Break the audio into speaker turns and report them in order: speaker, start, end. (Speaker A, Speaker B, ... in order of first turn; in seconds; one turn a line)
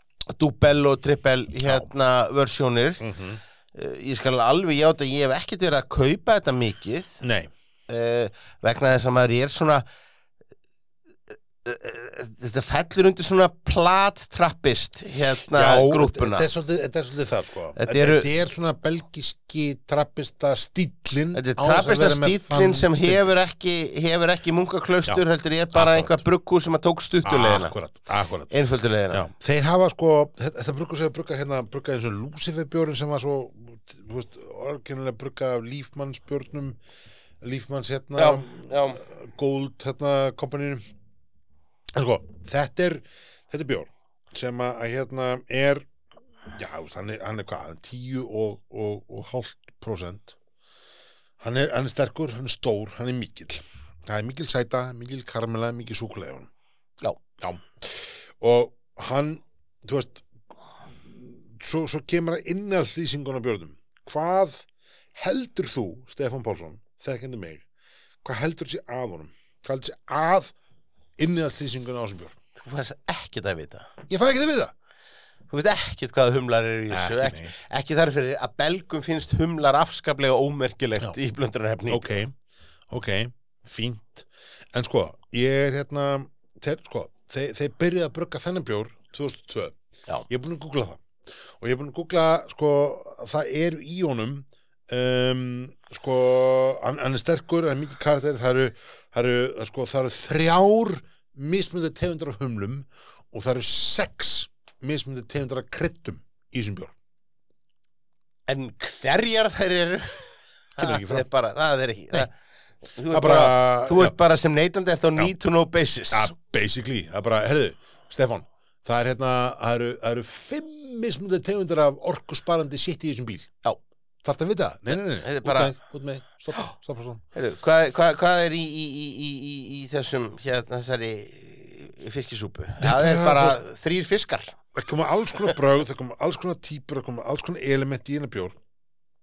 Speaker A: 0.3-3.0
Speaker B: 1.6-1.9
Speaker B: 3.0-3.4
Speaker A: 3.7-7.2
Speaker B: 7.2-7.5
Speaker A: 7.9-9.8
Speaker A: 11.6-16.5
Speaker B: 15.5-23.3
Speaker A: 17.8-18.3
Speaker A: 21.3-27.7
Speaker B: 25.1-26.2
Speaker B: 27.2-28.5
Speaker A: 28.5-29.2
Speaker B: 29.1-36.8
Speaker B: 37.4-40.8
Speaker A: 38.2-39.0
Speaker B: 41.9-45.9
Speaker B: 46.5-50.3
Speaker B: 51.4-56.5
Speaker B: 57.4-60.2
Speaker B: 61.0-67.6
Speaker B: 68.2-70.5
Speaker B: 71.2-72.4
Speaker A: 72.6-73.9
Speaker B: 74.1-74.7
Speaker A: 75.5-82.1
Speaker B: 76.9-77.6
Speaker B: 81.9-82.3
Speaker B: 82.9-89.8
Speaker B: 90.3-91.0
Speaker B: 91.6-106.9
Speaker A: 108.5-112.3
Speaker B: 110.8-111.2
Speaker A: 112.9-116.3
Speaker B: 113.1-114.1
Speaker B: 116.1-123.5
Speaker B: 124.2-127.2
Speaker A: 125.1-125.7
Speaker A: 127.3-134.6
Speaker B: 132.8-133.6
Speaker B: 134.7-138.6